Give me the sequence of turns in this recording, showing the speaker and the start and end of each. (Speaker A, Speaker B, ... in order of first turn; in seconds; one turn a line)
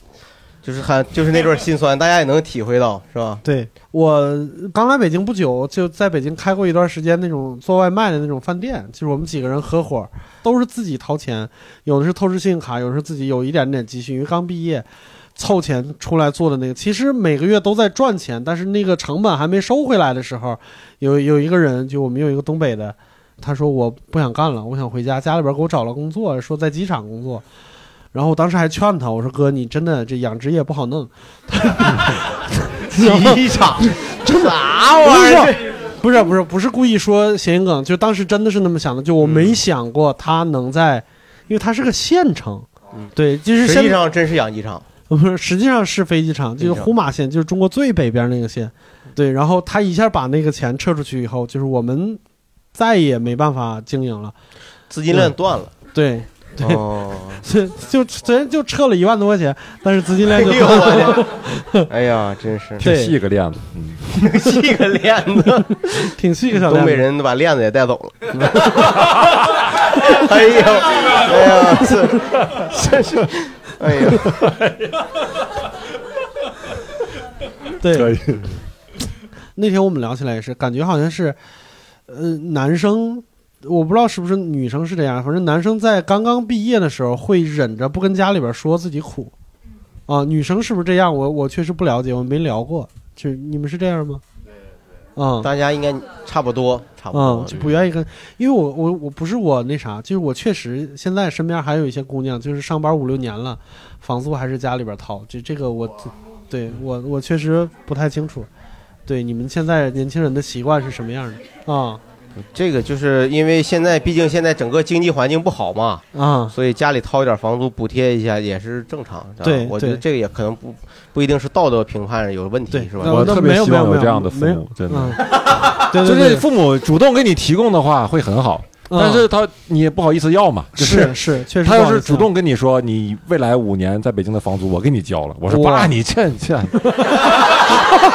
Speaker A: 0.6-3.4
Speaker B: 3.4-14.8
Speaker B: 15.4-27.4
Speaker B: 28.1-44.0
Speaker A: 32.9-35.7
Speaker A: 39.2-39.6
Speaker A: 43.0-44.8
Speaker B: 45.1-52.2
Speaker A: 46.6-46.9
Speaker B: 52.7-54.3
Speaker A: 54.9-55.7
Speaker B: 55.9-56.8
Speaker A: 56.6-57.4
Speaker B: 57.4-61.9
Speaker A: 60.2-62.8
Speaker C: 62.8-64.2
Speaker B: 62.8-63.1
Speaker A: 64.2-74.3
Speaker B: 66.0-67.0
Speaker C: 74.2-74.9
Speaker B: 77.8-78.2
Speaker C: 77.9-78.5
Speaker B: 79.5-81.4
Speaker B: 82.1-89.3
Speaker B: 90.1-94.2
Speaker B: 95.2-95.5
Speaker A: 95.4-97.8
Speaker B: 97.1-108.5
Speaker B: 109.1-112.0
Speaker A: 112.4-123.3
Speaker B: 116.1-116.5
Speaker B: 119.4-120.0
Speaker B: 122.7-126.4
Speaker C: 123.0-137.3
Speaker B: 128.9-129.2
Speaker B: 130.7-132.3
Speaker B: 135.5-135.9